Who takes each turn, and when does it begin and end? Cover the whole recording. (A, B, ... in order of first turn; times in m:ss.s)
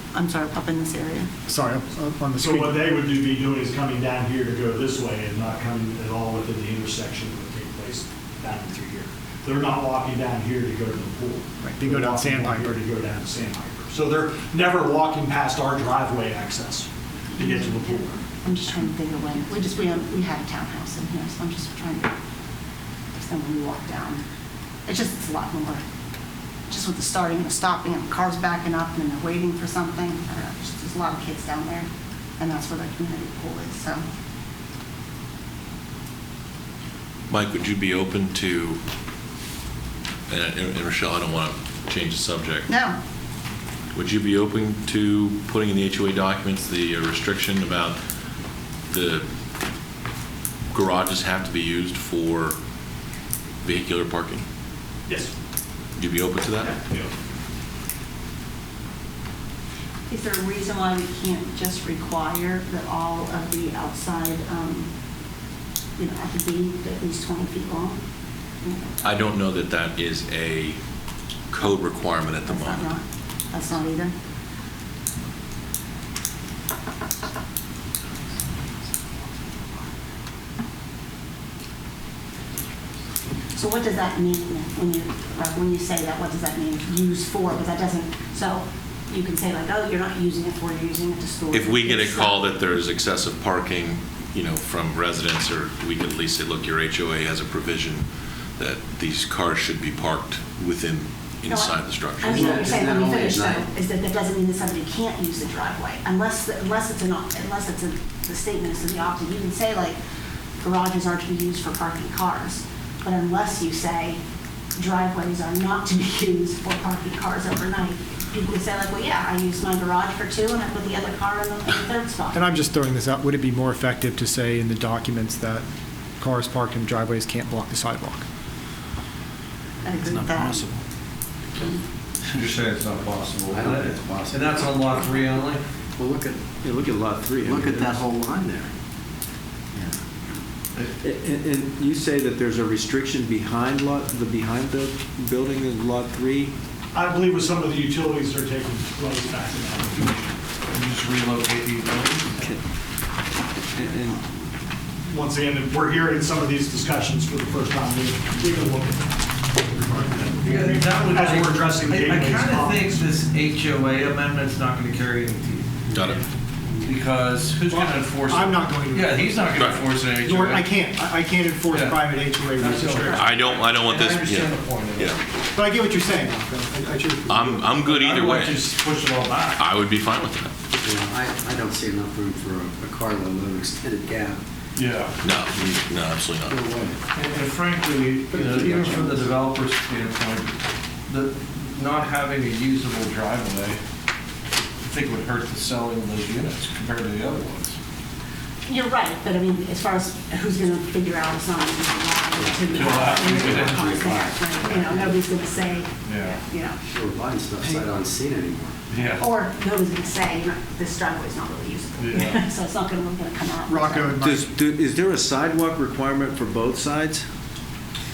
0:00.1-0:01.3 A
0:01.5-0:02.8 B
0:02.4-0:18.2 C
0:11.6-0:12.8 B
0:17.3-0:22.1 A
0:23.1-0:24.2 A
0:24.9-0:25.8 A
0:26.7-0:34.0 A
0:37.3-0:38.8 D
0:40.3-0:42.7 D
0:42.7-0:43.0 A
0:43.9-0:48.0 D
0:48.9-0:49.2 D
0:50.7-0:52.6 D
0:53.6-0:54.4 D
0:55.1-0:55.3 C
0:56.0-0:56.8 D
0:56.6-0:57.1 C
1:00.1-1:04.9 A
1:06.0-1:08.0 A
1:08.6-1:09.1 A
1:09.0-1:10.8 D
1:11.5-1:12.9 D
1:12.5-1:14.1 A
1:23.5-1:32.4 A
1:31.5-1:38.1 D
1:38.6-1:42.6 D
1:41.5-1:50.0 A
1:42.3-1:43.7 E
1:50.6-1:54.2 A
1:54.8-2:02.4 A
2:02.3-2:05.6 B
2:06.2-2:08.2 B
2:09.8-2:10.6 A
2:10.1-2:10.8 F
2:12.3-2:15.6 G
2:13.5-2:14.8 E
2:16.0-2:16.5 E
2:16.6-2:17.9 F
2:17.4-2:18.7 E
2:20.8-2:26.5 F
2:26.9-2:30.4 C
2:30.7-2:32.5 G
2:33.7-2:34.2 F
2:35.1-2:42.9 C
2:40.4-2:46.1 G
2:45.9-2:46.2 D
2:46.8-2:50.7 G
2:47.7-2:53.3 B
2:49.6-2:49.8 D
2:51.7-2:55.2 G
2:53.1-2:55.2 D
2:55.5-2:57.8 B
2:57.3-2:58.7 D
2:57.9-2:59.6 G
2:59.6-3:00.5 D
3:00.8-3:04.4 E
3:04.8-3:05.2 G
3:05.2-3:06.6 D
3:06.5-3:06.9 E
3:07.1-3:10.5 G
3:08.5-3:09.2 E
3:11.1-3:13.8 G
3:14.8-3:17.8 G
3:18.6-3:26.8 A
3:22.4-3:25.1 E
3:22.7-3:24.0 G
3:26.0-3:26.4 G
3:26.8-3:28.8 E
3:28.9-3:29.2 G
3:29.0-3:34.2 A
3:32.0-3:32.4 G
3:33.7-3:34.5 B
3:34.2-3:37.2 F